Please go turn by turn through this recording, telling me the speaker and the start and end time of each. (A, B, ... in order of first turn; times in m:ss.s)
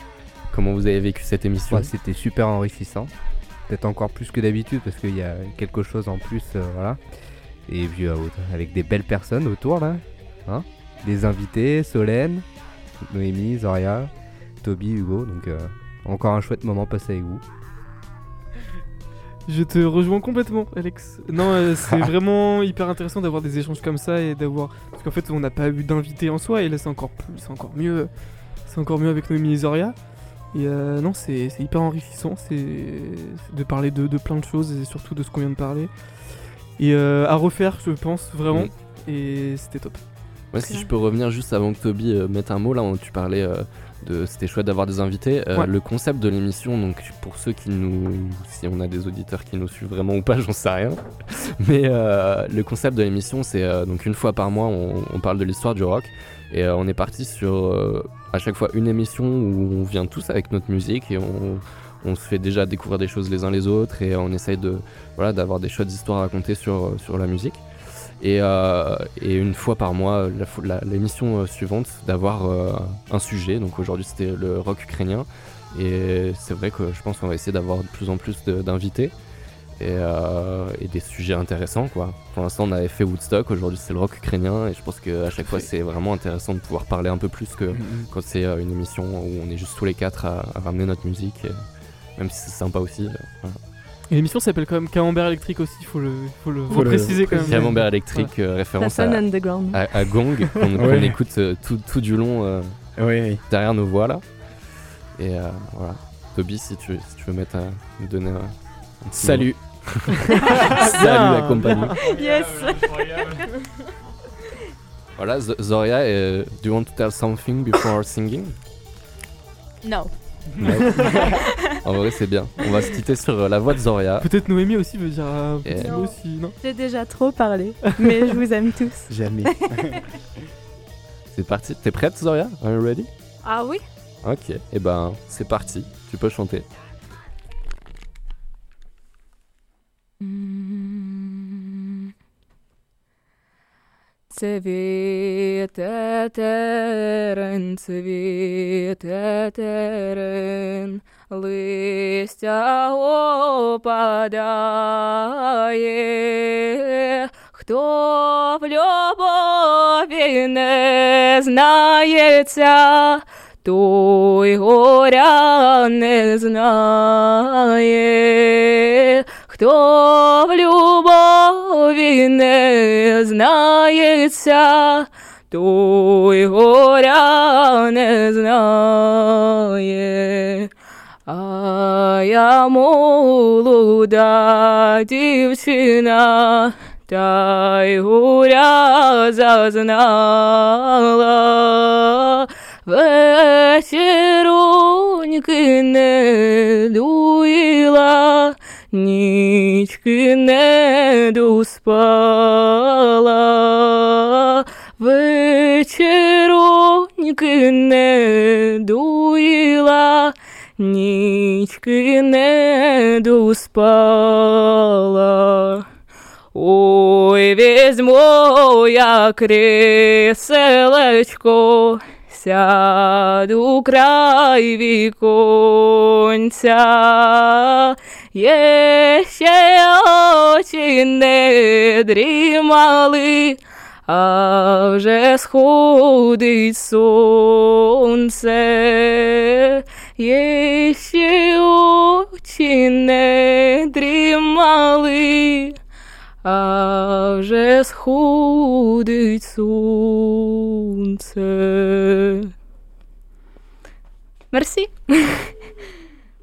0:00.5-0:01.9 A
0:01.7-0:03.1 B
0:03.7-0:07.0 B
0:07.7-0:12.4 B
0:13.0-0:14.1 B
0:14.6-0:17.4 B
0:19.4-0:35.9 C
0:36.7-0:40.0 C
0:40.5-1:07.6 A
0:40.6-0:40.9 D
1:08.2-1:19.1 A
1:19.8-1:31.5 A
1:27.7-1:28.0 E
1:32.2-1:33.6 A
1:34.1-1:38.3 C
1:36.7-1:42.7 A
1:36.7-1:37.9 E
1:38.8-1:39.8 D
1:40.8-1:41.2 E
1:43.0-1:43.4 E
1:43.5-1:44.2 A
1:45.2-1:52.0 A
1:49.2-1:50.3 E
1:50.6-1:51.9 C
1:52.2-1:52.6 F
1:52.9-1:53.4 D
1:55.2-1:58.5 A
1:59.8-2:00.1 F
2:00.6-2:04.3 A
2:00.7-2:01.2 C
2:01.2-2:01.7 F
2:04.2-2:06.6 C
2:05.6-2:06.0 A
2:05.8-2:06.1 F
2:06.6-2:09.1 D
2:09.1-2:10.0 E
2:11.3-2:13.1 A
2:13.4-2:13.8 F
2:14.2-2:16.6 A
2:20.2-2:22.1 F
2:24.3-3:00.7 F
3:01.3-3:35.8 F
3:36.5-4:05.8 F
4:06.4-4:12.5 F
4:14.5-4:15.5 F